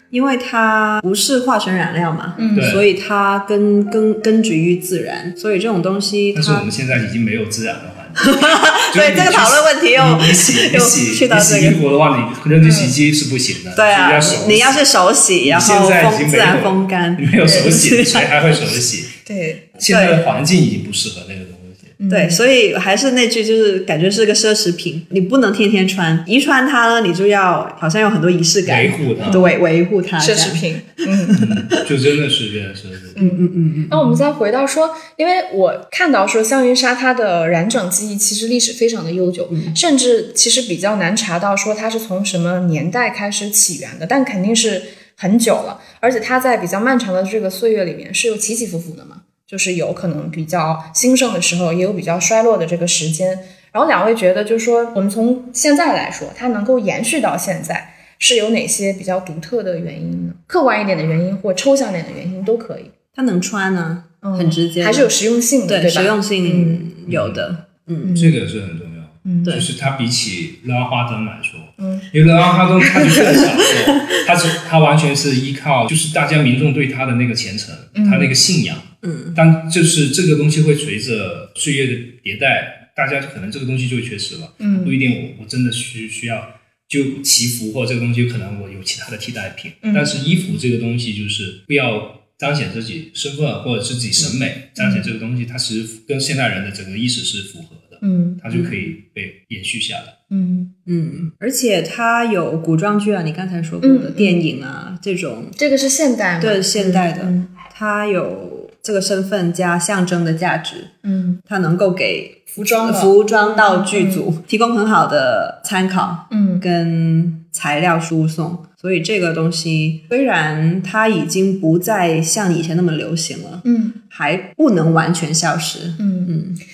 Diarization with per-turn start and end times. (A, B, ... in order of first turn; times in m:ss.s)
0:00.1-0:06.7 A
0:02.4-0:02.8 B
0:02.5-0:02.9 C
0:06.3-0:14.8 C
0:08.2-0:11.8 A
0:12.6-0:13.0 B
0:13.8-0:18.8 A
0:15.4-0:19.2 C
0:19.3-0:19.7 B
0:19.8-0:22.0 C
0:19.8-0:20.2 A
0:22.0-0:22.4 B
0:22.1-0:31.9 A
0:28.6-0:29.5 C
0:29.2-0:29.5 B
0:30.2-0:31.4 B
0:31.3-0:33.3 C
0:33.2-1:02.9 B
0:33.2-0:34.2 A
0:39.5-0:39.8 A
1:03.2-1:05.1 A
1:04.2-1:06.9 B
1:05.7-1:08.2 A
1:07.1-1:07.4 C
1:08.0-1:08.4 B
1:08.2-1:40.2 C
1:09.2-1:09.6 B
1:11.8-1:12.1 B
1:12.9-1:13.2 B
1:18.0-1:18.4 B
1:19.0-1:19.4 A
1:24.6-1:25.0 B
1:29.8-1:30.5 B
1:34.8-1:35.1 B
1:38.0-1:38.7 B
1:40.3-1:40.7 B
1:40.9-1:45.6 A
1:43.8-1:44.4 B
1:45.6-1:47.4 B
1:46.4-1:50.9 A
1:51.0-1:51.4 B
1:51.4-2:06.6 A
1:52.6-1:54.2 B
1:56.3-1:56.6 B
2:03.6-2:04.0 B
2:06.0-2:06.4 B